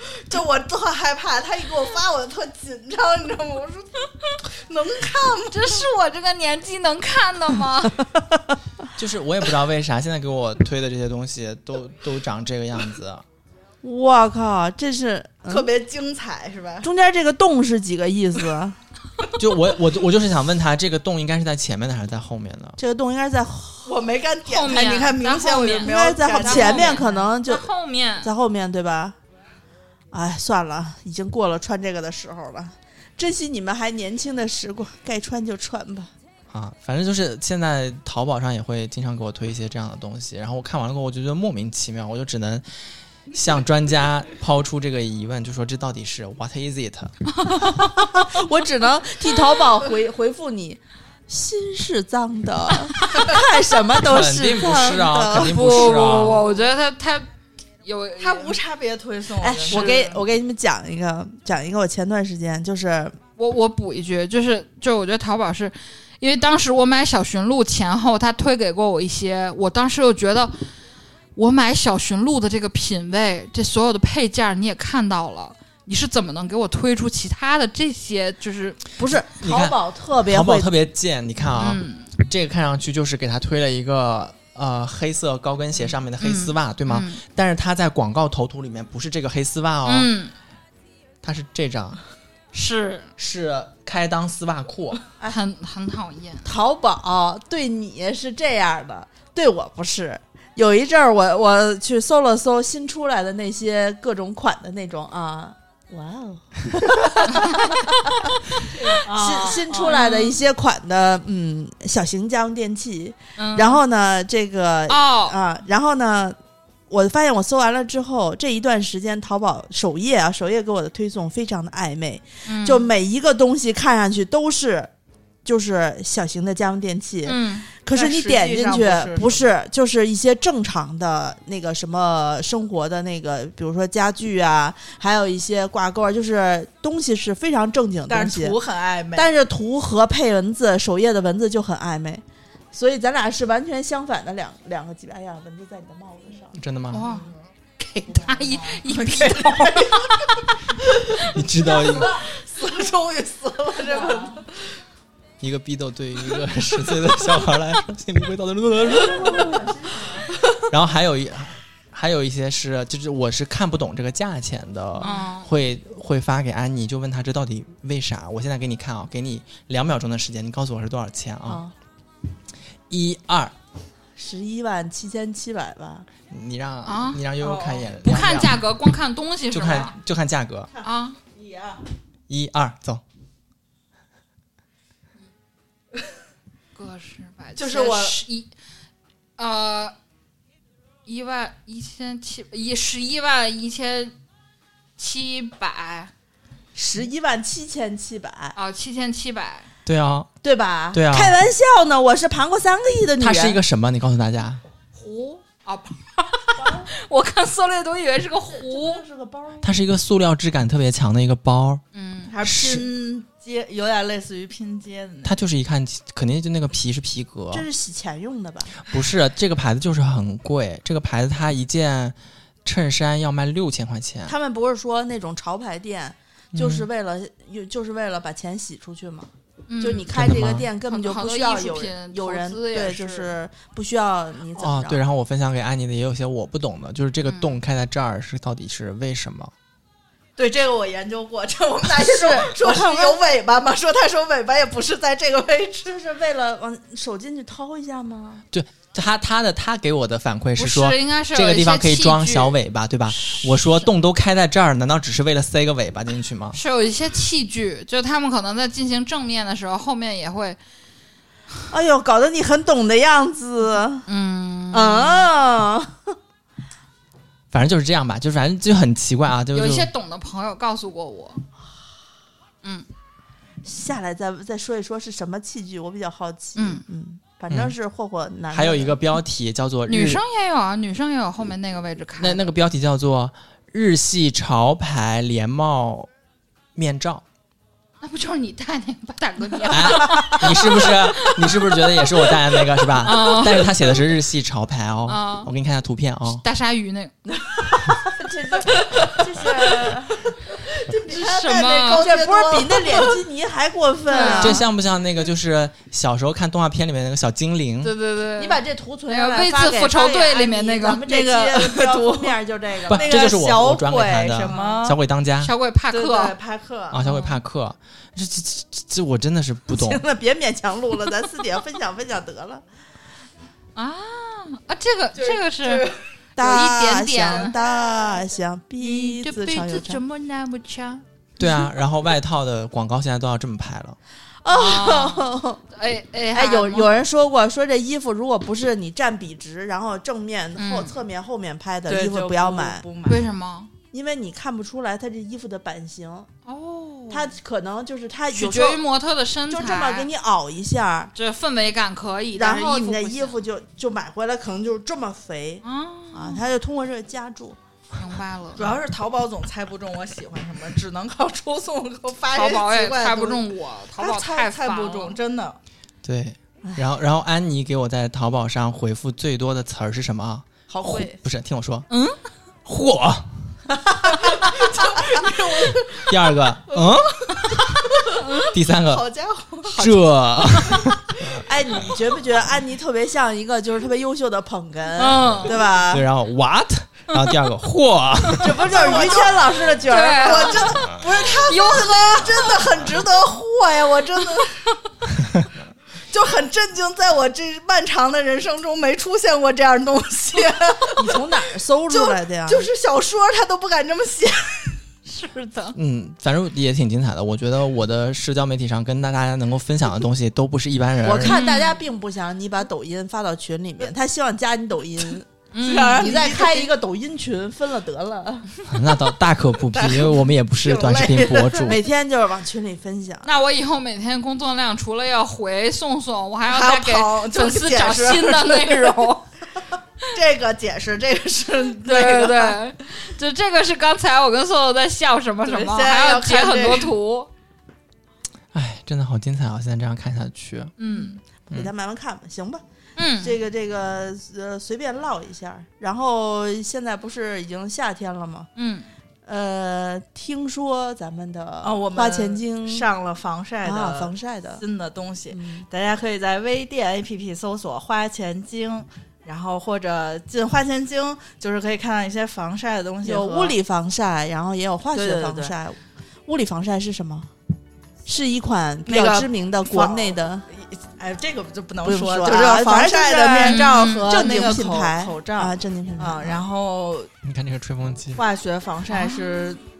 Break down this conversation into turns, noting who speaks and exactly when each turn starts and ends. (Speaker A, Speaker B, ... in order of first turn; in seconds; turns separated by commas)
Speaker A: 0.1-4.0, Speaker A: 4.6-5.7, Speaker B: 5.5-8.0, Speaker C: 9.0-13.2, Speaker D: 13.8-15.7, Speaker A: 15.5-16.9, Speaker D: 16.8-18.8, Speaker C: 19.4-22.8, Speaker D: 22.8-24.0, Speaker A: 23.9-27.0, Speaker B: 24.4-28.3, Speaker D: 25.8-27.7, Speaker D: 28.2-29.2, Speaker D: 30.1-36.1, Speaker C: 36.5-42.6, Speaker C: 43.3-47.1, Speaker D: 47.6-56.1, Speaker C: 54.0-56.4, Speaker B: 55.5-57.2, Speaker B: 57.8-58.6, Speaker A: 58.2-60.2, Speaker D: 59.4-63.1, Speaker B: 59.7-60.1, Speaker B: 63.4-70.5, Speaker B: 71.3-78.8, Speaker D: 79.0-80.7, Speaker C: 79.3-90.1, Speaker B: 81.6-82.1, Speaker B: 86.2-87.2, Speaker B: 89.8-90.3, Speaker C: 91.2-92.0, Speaker B: 92.5-93.1, Speaker C: 93.2-95.0, Speaker B: 95.3-96.5, Speaker D: 96.4-108.3, Speaker A: 108.8-110.0, Speaker D: 109.0-116.4, Speaker B: 109.8-110.3, Speaker B: 113.4-113.8, Speaker B: 114.9-115.3, Speaker D: 116.9-124.9, Speaker B: 122.5-122.9, Speaker D: 125.4-138.6, Speaker B: 127.2-127.7, Speaker A: 127.9-129.4, Speaker A: 138.1-139.3, Speaker D: 139.2-146.6, Speaker C: 146.5-147.1, Speaker B: 146.9-147.3, Speaker B: 148.0-149.9, Speaker A: 148.7-150.2, Speaker C: 151.3-152.1, Speaker A: 151.8-154.4, Speaker D: 153.8-154.3, Speaker C: 155.4-159.6, Speaker D: 158.8-160.3, Speaker C: 160.7-171.6, Speaker B: 165.0-165.5, Speaker D: 171.5-171.7, Speaker C: 172.9-173.5, Speaker D: 174.2-176.1, Speaker C: 176.3-178.6, Speaker B: 176.8-177.2, Speaker A: 177.4-177.9, Speaker B: 178.0-179.9, Speaker C: 179.5-180.7, Speaker A: 180.8-181.8, Speaker B: 180.8-181.2, Speaker C: 182.3-183.0, Speaker B: 186.8-188.5, Speaker A: 187.6-188.2, Speaker B: 189.4-189.9, Speaker B: 191.1-194.1, Speaker B: 195.0-196.1, Speaker D: 196.7-198.6, Speaker B: 198.6-199.7, Speaker C: 199.8-200.3, Speaker D: 200.4-203.6, Speaker C: 200.9-201.3, Speaker C: 203.2-204.6, Speaker B: 204.9-209.0, Speaker D: 206.6-206.9, Speaker D: 208.5-209.7, Speaker C: 209.6-211.8, Speaker B: 211.9-212.3, Speaker A: 212.3-215.3, Speaker C: 212.4-212.8, Speaker C: 215.2-217.6, Speaker D: 217.5-218.8, Speaker C: 218.8-224.3, Speaker D: 224.3-229.3, Speaker C: 226.5-226.9, Speaker B: 229.7-230.1, Speaker D: 229.8-235.0, Speaker C: 230.1-230.7, Speaker B: 230.8-233.3, Speaker C: 234.6-239.5, Speaker B: 237.2-237.6, Speaker A: 240.4-245.9, Speaker D: 241.9-243.2, Speaker D: 245.9-248.4, Speaker C: 248.5-256.6, Speaker B: 250.6-252.5, Speaker B: 253.1-253.5, Speaker B: 256.5-260.6, Speaker D: 261.7-264.0, Speaker B: 264.1-265.3, Speaker D: 264.7-266.1, Speaker C: 267.5-269.9, Speaker B: 269.5-271.4, Speaker D: 273.6-279.0, Speaker B: 276.6-276.8, Speaker C: 277.5-277.7, Speaker C: 278.5-280.2, Speaker B: 279.9-282.4, Speaker C: 282.2-286.1, Speaker C: 286.7-287.2, Speaker B: 288.0-292.1, Speaker C: 289.7-296.4, Speaker B: 293.0-293.7, Speaker B: 295.1-295.5, Speaker B: 296.4-297.1, Speaker D: 298.0-300.2, Speaker A: 300.7-303.1, Speaker B: 301.1-302.1, Speaker D: 302.0-304.6, Speaker B: 304.1-304.6, Speaker A: 304.1-304.5, Speaker C: 304.4-307.9, Speaker B: 307.8-311.1, Speaker D: 308.4-313.4, Speaker A: 311.1-312.4, Speaker C: 312.9-315.5, Speaker A: 312.9-315.0, Speaker B: 315.4-316.4, Speaker A: 315.9-317.0, Speaker C: 316.9-320.0, Speaker B: 317.0-317.4, Speaker D: 319.7-322.6, Speaker B: 323.8-325.9, Speaker A: 325.1-326.0, Speaker D: 326.4-330.0, Speaker B: 326.4-327.6, Speaker B: 328.8-331.0, Speaker C: 331.4-334.0, Speaker D: 334.4-335.6, Speaker B: 334.5-336.9, Speaker D: 336.3-342.8, Speaker B: 340.6-341.0, Speaker A: 341.9-343.2, Speaker B: 343.1-343.7, Speaker D: 343.9-346.3, Speaker B: 346.4-347.3, Speaker D: 347.1-348.8, Speaker B: 348.3-350.1, Speaker D: 349.5-351.1, Speaker B: 351.1-353.4, Speaker D: 352.3-357.6, Speaker B: 355.6-356.4, Speaker B: 358.0-358.8, Speaker A: 358.6-363.5, Speaker B: 362.3-365.2, Speaker A: 364.0-365.6, Speaker C: 366.0-371.9, Speaker B: 371.9-372.2, Speaker C: 372.6-373.5, Speaker D: 373.8-374.1, Speaker A: 374.3-376.1, Speaker C: 376.0-377.7, Speaker A: 376.8-377.2, Speaker C: 378.5-379.1, Speaker A: 378.9-380.1, Speaker C: 379.6-381.2, Speaker D: 381.4-386.1, Speaker B: 385.0-385.6, Speaker C: 385.9-388.6, Speaker D: 388.4-390.9, Speaker A: 388.6-389.4, Speaker B: 389.9-390.8, Speaker A: 390.0-394.5, Speaker B: 391.5-392.4, Speaker A: 396.1-401.2, Speaker D: 400.9-402.7, Speaker A: 401.9-404.8, Speaker B: 405.1-405.8, Speaker C: 405.7-411.4, Speaker D: 411.0-418.5, Speaker B: 411.2-411.8, Speaker B: 415.5-416.2, Speaker A: 415.6-416.7, Speaker C: 418.7-421.8, Speaker A: 419.7-421.7, Speaker D: 421.7-423.3, Speaker B: 423.2-429.2, Speaker A: 426.5-429.1, Speaker A: 430.1-432.6, Speaker B: 431.8-437.3, Speaker A: 435.4-436.9, Speaker C: 438.5-440.7, Speaker B: 440.8-441.2, Speaker D: 441.5-442.6, Speaker B: 443.0-443.4, Speaker D: 443.2-448.5, Speaker B: 448.6-448.9, Speaker D: 449.2-452.9, Speaker A: 451.6-463.6, Speaker D: 453.6-454.6, Speaker D: 455.3-455.6, Speaker D: 463.0-467.3, Speaker A: 464.9-465.6, Speaker D: 468.1-470.4, Speaker A: 468.9-477.1, Speaker D: 471.8-476.4, Speaker B: 473.4-474.3, Speaker C: 477.2-478.2, Speaker A: 478.1-479.6, Speaker B: 478.9-479.2